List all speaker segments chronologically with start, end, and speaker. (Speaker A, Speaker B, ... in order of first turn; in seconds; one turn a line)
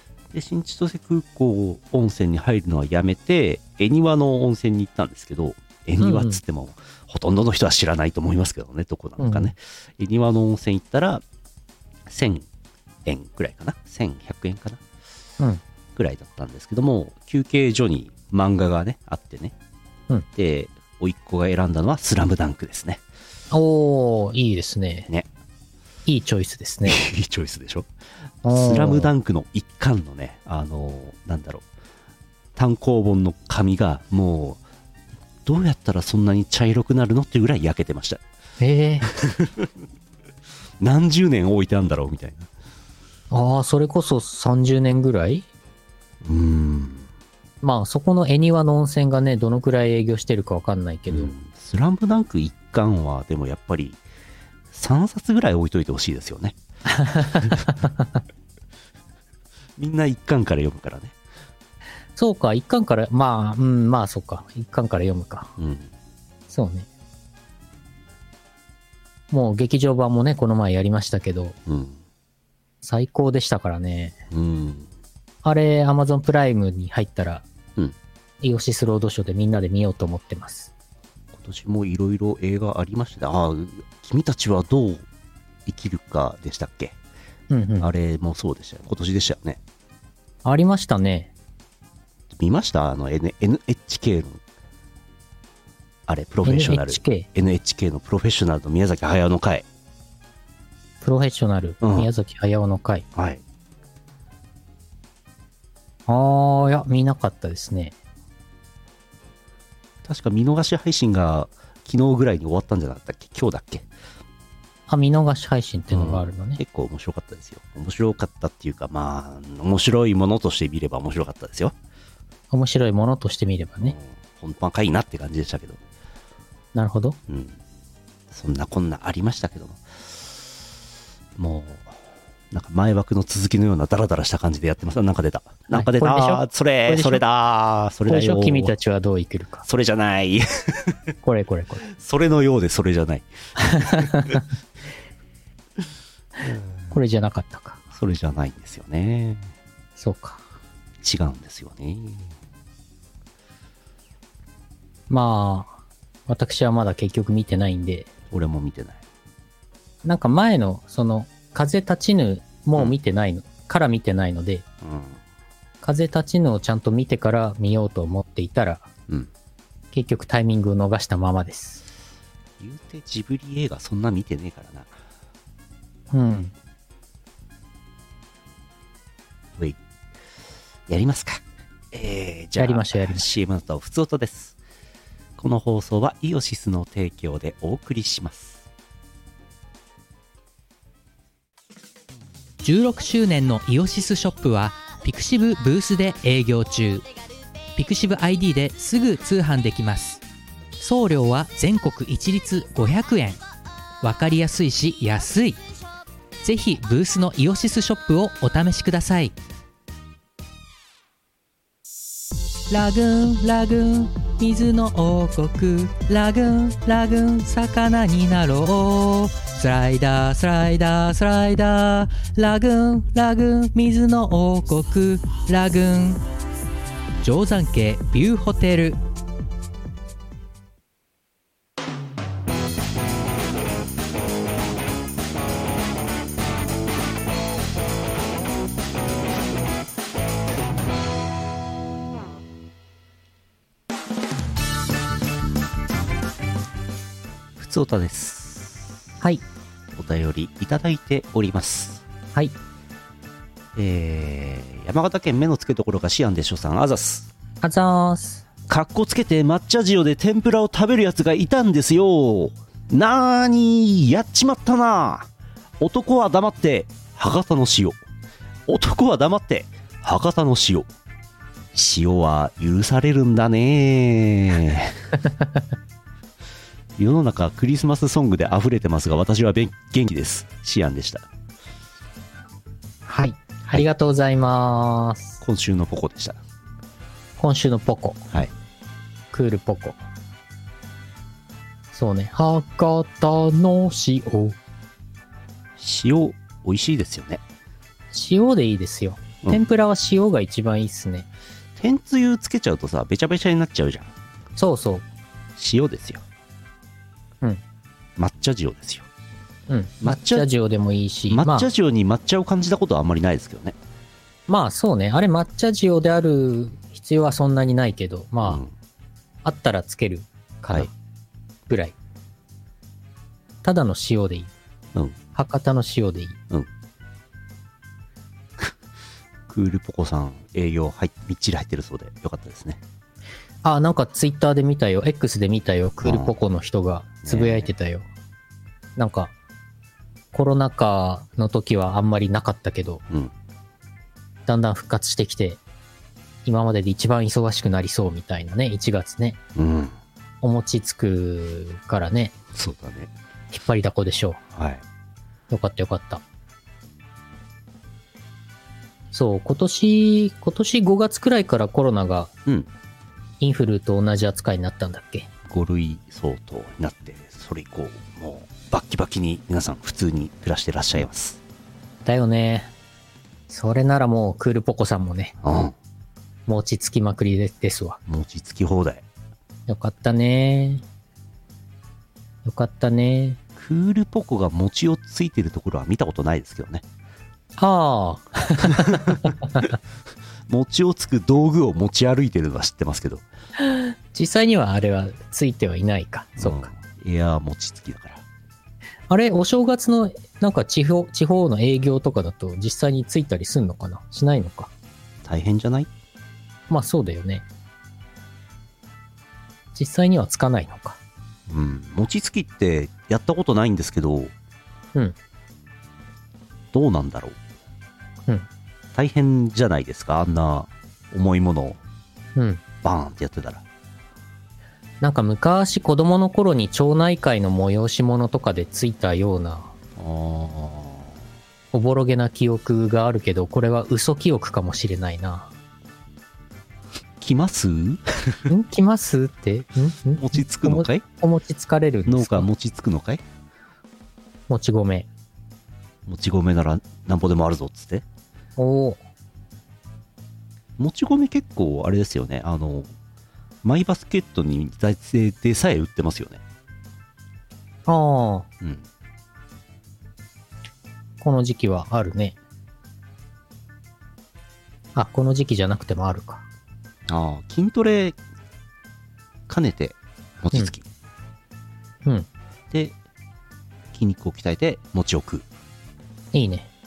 Speaker A: 0.3-11.2
Speaker B: 6.0-6.4
Speaker B: 9.2-9.5
Speaker A: 12.1-12.5
Speaker A: 13.0-14.8
Speaker A: 15.9-19.5
Speaker A: 20.3-23.0
Speaker B: 23.5-25.1
Speaker B: 26.1-27.0
Speaker A: 26.8-27.9
Speaker A: 28.4-31.6
Speaker B: 28.4-29.1
Speaker A: 32.5-34.6
Speaker A: 35.4-38.2
Speaker B: 38.6-39.1
Speaker A: 39.0-39.7
Speaker A: 40.8-42.5
Speaker B: 43.3-45.5
Speaker A: 46.2-47.1
Speaker B: 47.6-51.3
Speaker A: 51.1-54.0
Speaker A: 54.7-56.5
Speaker B: 56.9-58.1
Speaker A: 59.8-61.1
Speaker B: 62.1-65.5
Speaker A: 65.6-65.9
Speaker B: 66.5-66.9
Speaker B: 69.3-71.6
Speaker A: 71.7-72.0
Speaker B: 72.8-74.2
Speaker A: 74.3-74.9
Speaker B: 75.4-77.4
Speaker B: 78.4-80.7
Speaker A: 81.3-85.0
Speaker A: 85.7-87.0
Speaker B: 87.5-87.9
Speaker A: 87.8-89.6
Speaker B: 90.4-91.3
Speaker A: 92.4-94.4
Speaker A: 96.1-99.7
Speaker B: 96.4-97.3
Speaker B: 101.0-103.0
Speaker A: 101.8-102.1
Speaker A: 103.1-103.4
Speaker B: 106.1-107.9
Speaker A: 110.0-113.9
Speaker B: 114.9-116.6
Speaker A: 115.9-121.7
Speaker B: 122.5-123.9
Speaker A: 123.8-125.8
Speaker B: 126.7-127.2
Speaker A: 127.3-127.6
Speaker A: 128.3-130.3
Speaker A: 131.4-132.0
Speaker A: 132.5-138.7
Speaker B: 135.7-137.2
Speaker B: 138.1-139.7
Speaker A: 139.7-141.0
Speaker B: 141.2-141.8
Speaker A: 141.9-144.4
Speaker B: 143.6-144.4
Speaker A: 146.4-146.9
Speaker B: 146.9-147.8
Speaker A: 147.9-149.5
Speaker B: 150.0-150.4
Speaker A: 151.0-152.3
Speaker B: 155.1-158.1
Speaker A: 158.3-159.0
Speaker B: 160.0-164.6
Speaker A: 164.8-165.2
Speaker B: 165.8-168.9
Speaker B: 169.9-171.8
Speaker A: 172.6-175.0
Speaker B: 176.1-176.5
Speaker A: 180.9-184.6
Speaker B: 182.6-183.2
Speaker A: 185.4-188.6
Speaker C: 192.6-197.1
Speaker C: 197.8-200.2
Speaker C: 200.8-203.4
Speaker C: 204.0-205.6
Speaker C: 206.4-209.3
Speaker C: 212.7-226.2
Speaker C: 227.2-229.0
Speaker A: 247.6-248.9
Speaker A: 249.9-252.0
Speaker A: 253.8-257.3
Speaker B: 257.6-258.4
Speaker A: 258.7-265.3
Speaker A: 265.8-268.0
Speaker A: 268.7-270.9
Speaker A: 271.7-275.0
Speaker B: 275.2-275.6
Speaker A: 277.0-281.2
Speaker B: 283.1-285.4
Speaker A: 285.4-286.4
Speaker B: 287.4-288.3
Speaker B: 289.3-290.0
Speaker B: 291.9-294.6
Speaker A: 295.8-297.4
Speaker B: 298.1-301.3
Speaker A: 301.8-304.1
Speaker B: 304.6-305.0
Speaker A: 305.6-306.2
Speaker A: 308.2-309.1
Speaker B: 309.7-311.7
Speaker A: 310.0-310.5
Speaker A: 311.3-313.8
Speaker B: 314.5-318.6
Speaker A: 318.4-318.7
Speaker B: 319.4-320.9
Speaker B: 321.7-321.9
Speaker B: 323.6-324.5
Speaker B: 325.3-326.4
Speaker A: 329.5-332.8
Speaker B: 333.6-338.1
Speaker A: 336.0-336.3
Speaker A: 337.2-337.7
Speaker B: 338.9-339.3
Speaker B: 340.3-343.0
Speaker B: 344.4-345.6
Speaker B: 346.4-349.4
Speaker A: 349.5-349.9
Speaker B: 350.4-352.3
Speaker A: 352.5-353.1
Speaker B: 353.5-354.4
Speaker A: 354.5-354.8
Speaker B: 355.5-356.2
Speaker B: 359.1-362.3
Speaker B: 363.4-365.3
Speaker A: 365.4-371.4
Speaker B: 372.0-372.7
Speaker B: 373.5-375.3
Speaker A: 375.4-375.7
Speaker B: 376.5-378.0
Speaker A: 378.1-379.0
Speaker B: 379.7-380.8
Speaker B: 382.4-383.4
Speaker A: 383.6-386.8
Speaker B: 387.6-389.3
Speaker A: 388.6-389.7
Speaker A: 390.5-393.2
Speaker B: 393.6-396.7
Speaker A: 396.4-398.2
Speaker B: 399.1-404.7
Speaker A: 405.2-405.9
Speaker B: 406.7-407.4
Speaker B: 409.7-411.0
Speaker A: 411.5-414.3
Speaker A: 416.7-417.4
Speaker A: 418.9-421.8
Speaker B: 422.4-422.6
Speaker A: 422.8-423.6
Speaker B: 425.0-429.7
Speaker A: 430.0-431.1
Speaker B: 431.7-435.5
Speaker A: 437.2-438.4
Speaker B: 438.5-442.5
Speaker A: 440.1-441.0
Speaker A: 442.1-443.2
Speaker B: 444.5-445.1
Speaker A: 446.1-448.0
Speaker B: 448.6-449.0
Speaker A: 450.8-452.9
Speaker A: 453.6-456.4
Speaker B: 457.9-458.5
Speaker B: 461.2-462.4
Speaker B: 464.9-466.4
Speaker A: 467.1-468.2
Speaker A: 469.5-470.9
Speaker A: 473.9-475.4
Speaker B: 476.3-476.7